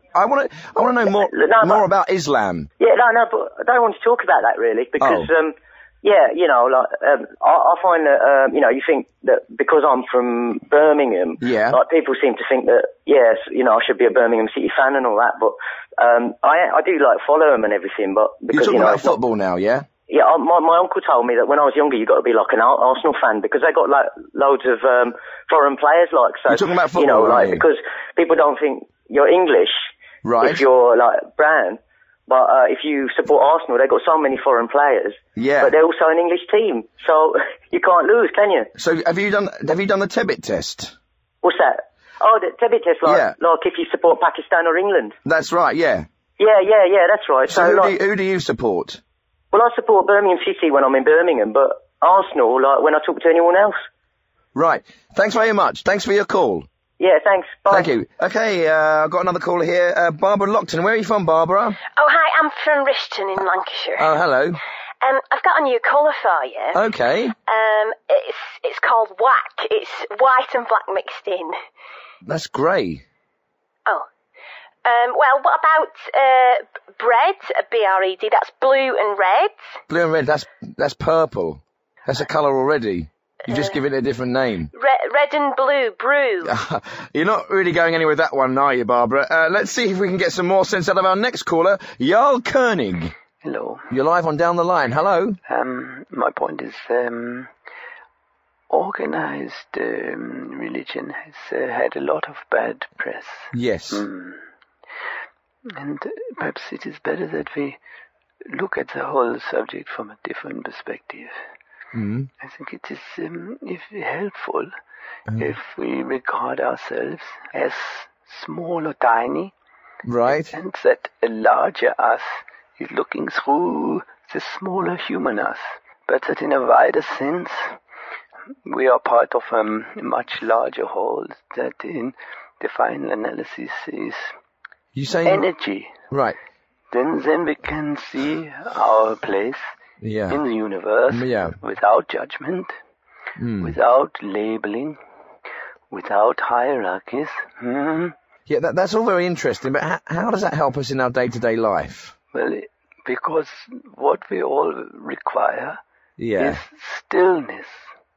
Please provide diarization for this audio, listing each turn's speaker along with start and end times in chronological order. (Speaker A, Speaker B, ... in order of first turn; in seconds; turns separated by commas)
Speaker A: 0.1-2.7, Speaker B: 1.1-1.8, Speaker B: 2.8-19.1, Speaker A: 5.0-5.3, Speaker A: 11.4-11.8, Speaker A: 18.5-19.9, Speaker B: 20.1-29.9, Speaker A: 26.5-27.6, Speaker A: 30.2-30.6, Speaker B: 30.4-38.7, Speaker A: 35.4-35.8, Speaker A: 38.8-40.9, Speaker B: 41.4-45.1, Speaker A: 43.0-43.4, Speaker A: 45.2-46.1, Speaker B: 46.4-47.9, Speaker A: 47.5-49.0, Speaker B: 49.5-53.8, Speaker A: 54.5-56.7, Speaker B: 57.0-57.9, Speaker A: 57.7-61.8, Speaker C: 62.0-64.1, Speaker A: 64.0-64.6, Speaker C: 65.0-66.8, Speaker A: 66.7-67.3, Speaker C: 67.5-71.6, Speaker A: 72.2-73.0, Speaker C: 74.8-79.7, Speaker A: 79.9-84.7, Speaker C: 83.5-83.7, Speaker C: 84.7-86.5, Speaker A: 86.4-93.1, Speaker D: 93.4-93.9, Speaker A: 93.9-95.4, Speaker D: 95.5-97.5, Speaker D: 98.7-104.4, Speaker A: 103.5-104.0, Speaker D: 105.7-107.8, Speaker D: 108.5-111.4, Speaker A: 111.9-112.3, Speaker D: 112.4-114.7, Speaker D: 115.3-119.5, Speaker A: 120.0-120.5, Speaker D: 120.3-127.8, Speaker D: 128.7-134.3, Speaker A: 134.9-135.4, Speaker D: 135.2-136.0, Speaker A: 136.1-136.4, Speaker D: 136.9-139.7, Speaker A: 140.0-140.4, Speaker D: 140.3-142.7, Speaker A: 141.1-141.6, Speaker A: 143.4-143.7, Speaker D: 143.6-145.0, Speaker D: 145.9-148.1, Speaker A: 148.5-152.1, Speaker D: 152.3-155.8, Speaker A: 156.2-156.6, Speaker D: 156.4-157.9